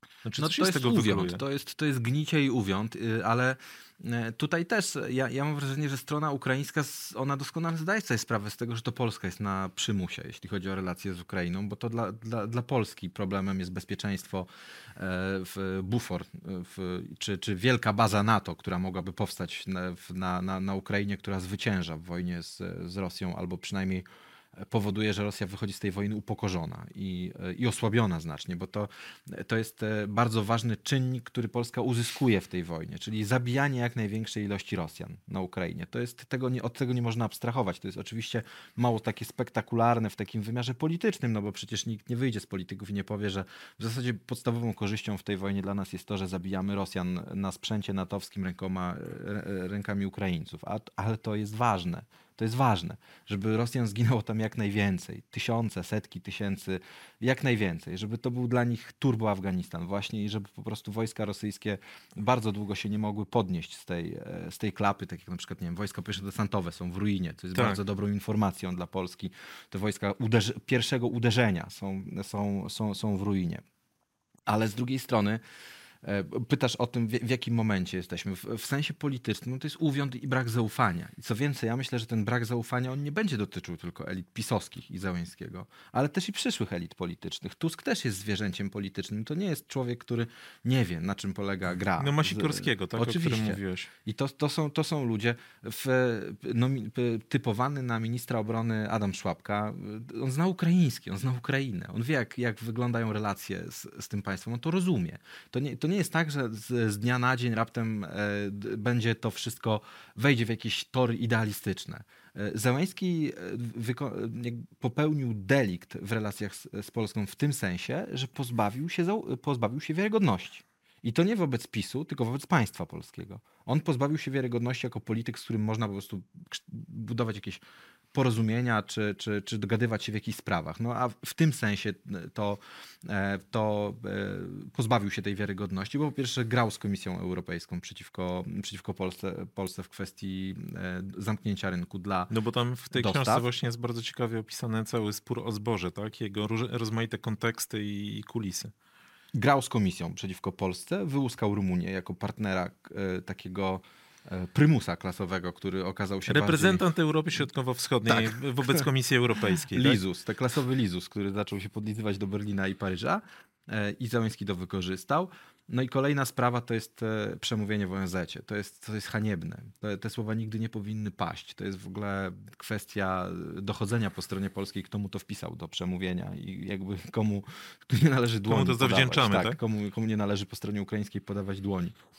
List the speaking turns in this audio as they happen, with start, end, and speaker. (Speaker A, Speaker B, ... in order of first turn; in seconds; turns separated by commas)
Speaker A: 0.2-1.4, Speaker B: 0.4-24.1, Speaker B: 24.6-73.6, Speaker B: 74.5-75.4, Speaker B: 76.0-127.6, Speaker A: 92.0-93.9, Speaker B: 128.1-142.3, Speaker A: 142.3-148.7, Speaker B: 142.9-143.4, Speaker B: 149.3-156.8, Speaker A: 156.3-160.0, Speaker B: 158.1-158.8, Speaker B: 159.7-181.9, Speaker A: 178.5-179.6